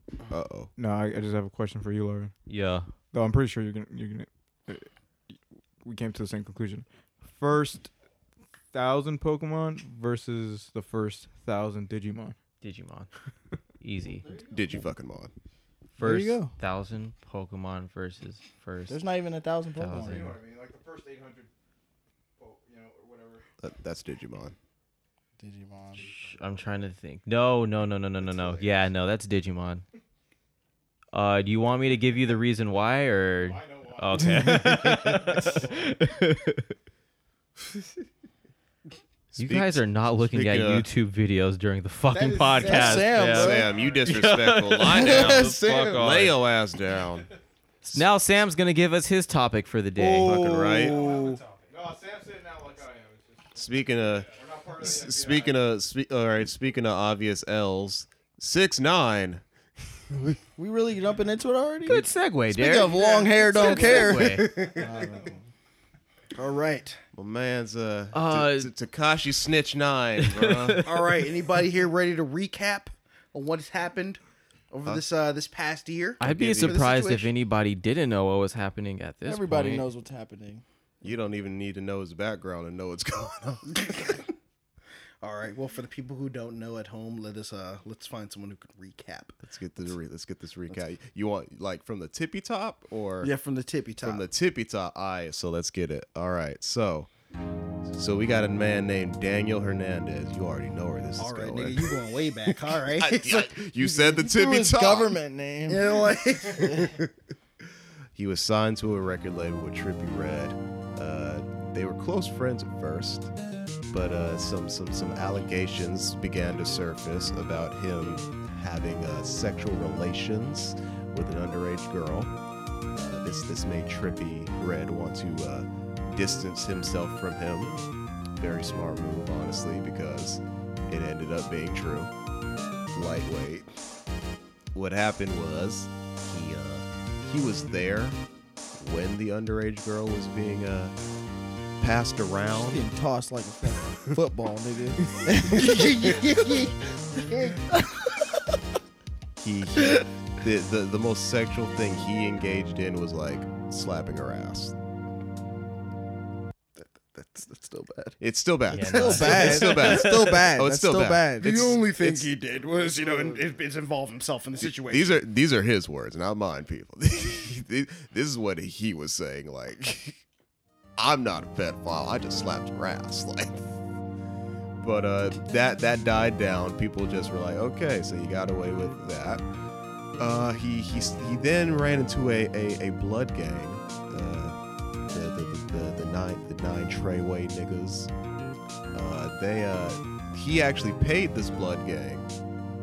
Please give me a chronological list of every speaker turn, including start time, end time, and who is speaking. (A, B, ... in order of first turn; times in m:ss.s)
0:00.3-0:00.7 A
0:00.8-0:02.3 B
0:02.5-0:02.9 C
0:03.1-0:04.9 B
0:05.8-0:07.9 B
0:08.7-0:12.4 B
0:12.6-0:13.1 C
0:13.8-0:14.2 C
0:14.2-0:14.6 D
0:14.5-0:15.3 A
0:16.0-0:19.0 C
0:16.0-0:16.5 D
0:18.9-0:20.4 D
0:19.8-0:20.4 C
0:19.9-0:21.5 E
0:22.4-0:23.4 E
0:23.6-0:24.6 A
0:25.4-0:26.1 D
0:25.9-0:26.7 E
0:26.1-0:29.8 C
0:28.2-0:28.7 A
0:31.1-0:36.7 C
0:33.4-0:36.0 E
0:39.3-0:40.9 A
0:39.4-0:46.4 C
0:42.1-0:43.5 F
0:42.6-0:43.7 D
0:43.3-0:47.3 A
0:43.5-0:44.3 E
0:44.9-0:46.0 D
0:47.9-0:51.0 C
0:50.0-0:51.4 D
0:50.3-0:51.0 A
0:50.8-0:55.7 E
0:53.5-0:59.4 A
1:00.6-1:05.4 D
1:01.9-1:02.9 C
1:02.9-1:05.1 F
1:03.5-1:04.5 C
1:04.7-1:05.3 E
1:06.4-1:07.0 F
1:07.1-1:10.8 A
1:08.1-1:08.7 C
1:10.2-1:11.0 C
1:10.8-1:14.2 F
1:14.7-1:17.3 F
1:16.2-1:16.8 A
1:16.2-1:19.9 C
1:19.2-1:20.6 D
1:21.0-1:24.0 A
1:23.7-1:24.2 F
1:25.2-1:29.4 F
1:29.4-1:33.3 A
1:33.2-1:34.3 F
1:34.0-1:37.1 A
1:37.8-1:41.9 A
1:41.2-1:44.2 F
1:42.5-1:45.1 A
1:44.2-1:46.0 D
1:45.7-1:47.0 F
1:46.8-1:47.1 A
1:48.2-1:53.3 A
1:53.9-2:02.3 A
2:03.0-2:07.8 A
2:08.4-2:12.1 A
2:12.9-2:13.7 A
2:14.7-2:18.2 A
2:18.8-2:21.0 A
2:21.8-2:22.9 A
2:22.5-2:26.7 D
2:25.5-2:27.6 F
2:27.3-2:27.6 D
2:29.4-2:34.7 A
2:36.8-2:38.2 F
2:38.2-2:42.3 A
2:38.7-2:40.3 C
2:38.9-2:41.8 D
2:39.0-2:39.7 F
2:41.4-2:45.2 F
2:44.6-2:50.2 A
2:51.0-2:53.7 A
2:54.8-2:59.4 A
3:00.2-3:04.6 A
3:05.1-3:08.1 A
3:08.9-3:12.3 A